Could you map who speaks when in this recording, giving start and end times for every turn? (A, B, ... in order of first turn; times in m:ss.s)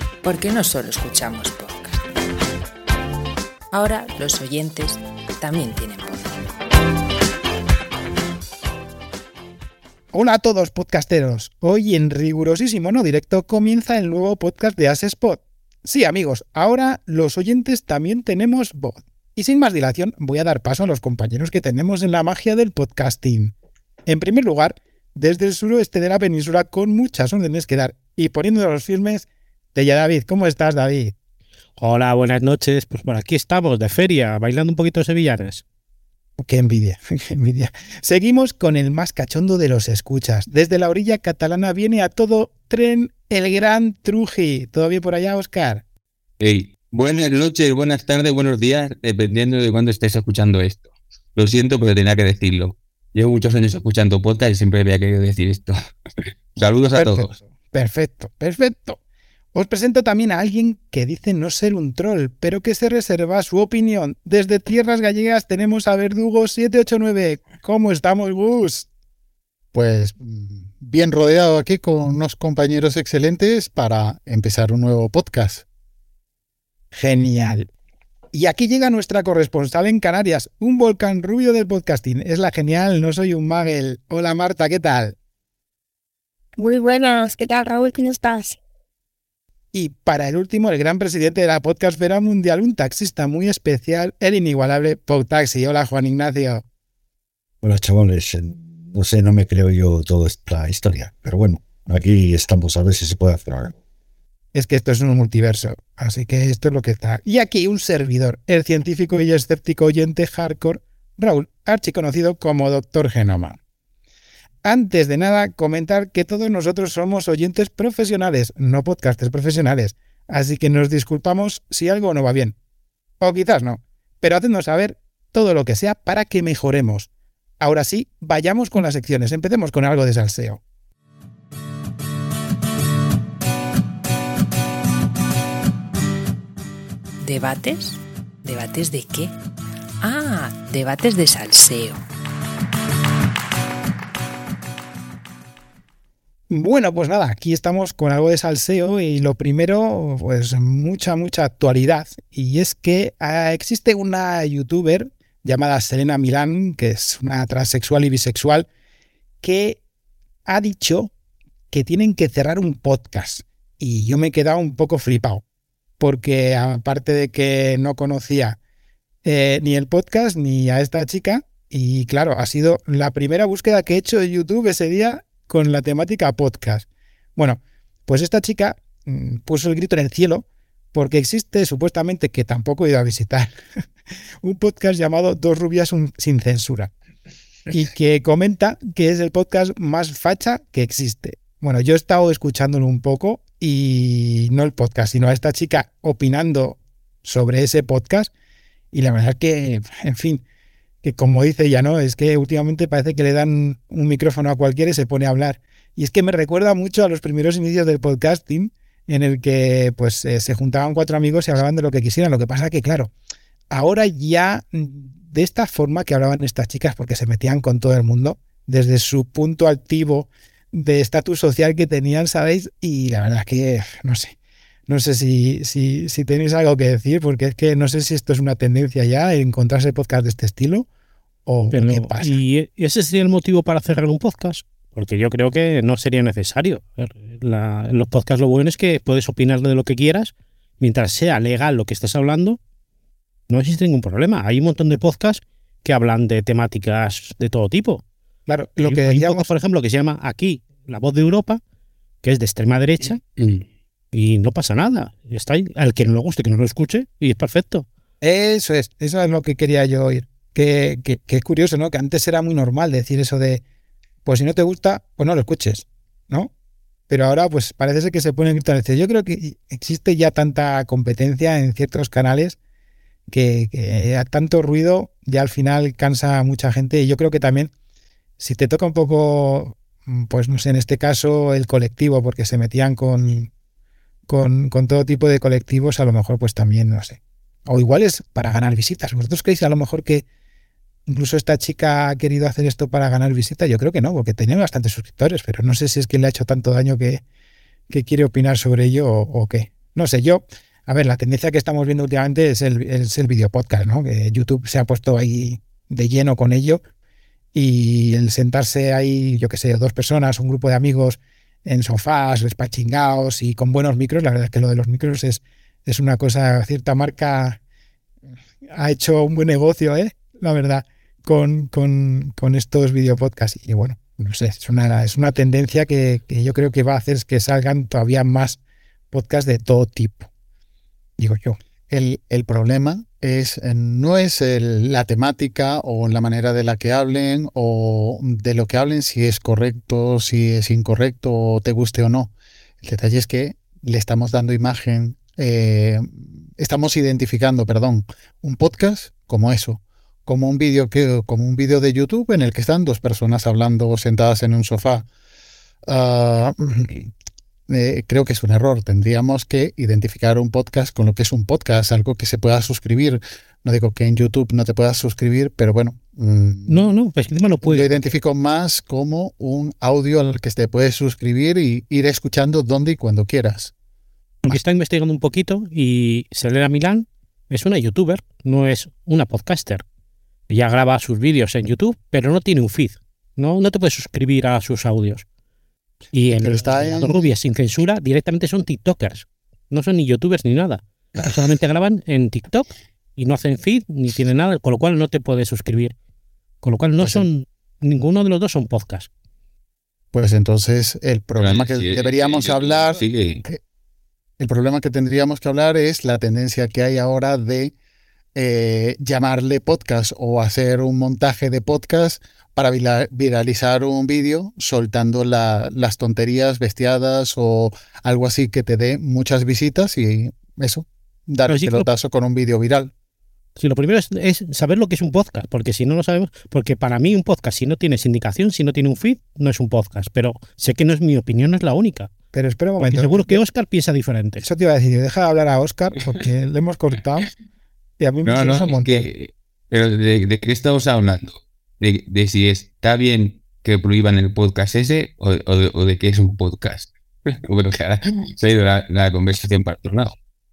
0:00.2-0:02.0 A
0:03.7-0:06.4 A
0:10.1-0:23.5 B
0:24.1-0:31.1 B
0:31.8-0:35.6 C
0:36.4-0:45.8 B
0:46.4-0:55.8 D
0:56.5-0:57.3 D
0:56.9-0:59.0 B
0:59.5-1:08.9 B
1:09.7-1:15.6 E
1:16.9-1:17.7 B
1:18.3-1:25.1 B
1:26.6-1:28.6 F
1:29.7-1:36.6 B
1:37.6-1:43.7 G
1:44.5-1:53.6 B
1:54.6-2:02.6 B
2:03.2-2:07.1 B
2:07.6-2:10.6 B
2:17.2-2:19.3 A
2:20.0-2:22.0 A
2:26.5-2:38.7 B
2:39.4-2:39.8 B
2:40.5-2:41.1 B
2:41.7-2:45.4 B
2:46.0-2:48.6 B
2:49.2-3:03.5 B
3:04.4-3:06.9 B
3:07.7-3:18.3 B
3:18.9-3:20.4 B
3:21.0-3:33.1 B
3:33.7-3:44.3 B
3:44.9-3:50.9 B
3:51.4-3:52.4 B
3:51.7-4:02.6 C
4:03.5-4:08.0 C
4:08.5-4:09.5 B
4:08.8-4:11.6 C
4:12.2-4:13.2 C
4:14.1-4:17.8 C
4:18.2-4:23.6 B
4:24.2-4:26.5 B
4:27.1-4:32.6 B
4:33.3-4:37.7 B
4:38.4-4:43.5 B
4:44.3-4:50.2 B
4:51.0-4:57.2 B
4:57.9-5:06.8 B
5:07.5-5:17.6 B
5:18.7-5:28.6 B
5:29.1-5:30.3 B
5:31.2-5:31.6 B
5:31.9-5:55.1 E
5:55.9-5:57.1 E
5:57.7-6:06.9 E
6:06.7-6:08.0 C
6:07.6-6:13.7 E
6:14.4-6:19.8 C
6:20.5-6:25.2 C
6:26.1-6:35.9 C
6:26.3-6:27.2 E
6:36.6-6:39.1 C
6:37.0-6:37.3 E
6:40.1-6:43.6 E
6:41.4-6:43.4 D
6:44.4-6:47.7 E
6:48.3-7:02.9 E
7:01.5-7:01.8 C
7:03.6-7:12.1 C
7:12.3-7:13.4 B
7:12.8-7:14.4 C
7:14.4-7:17.3 B
7:18.0-7:19.0 B
7:18.2-7:30.2 D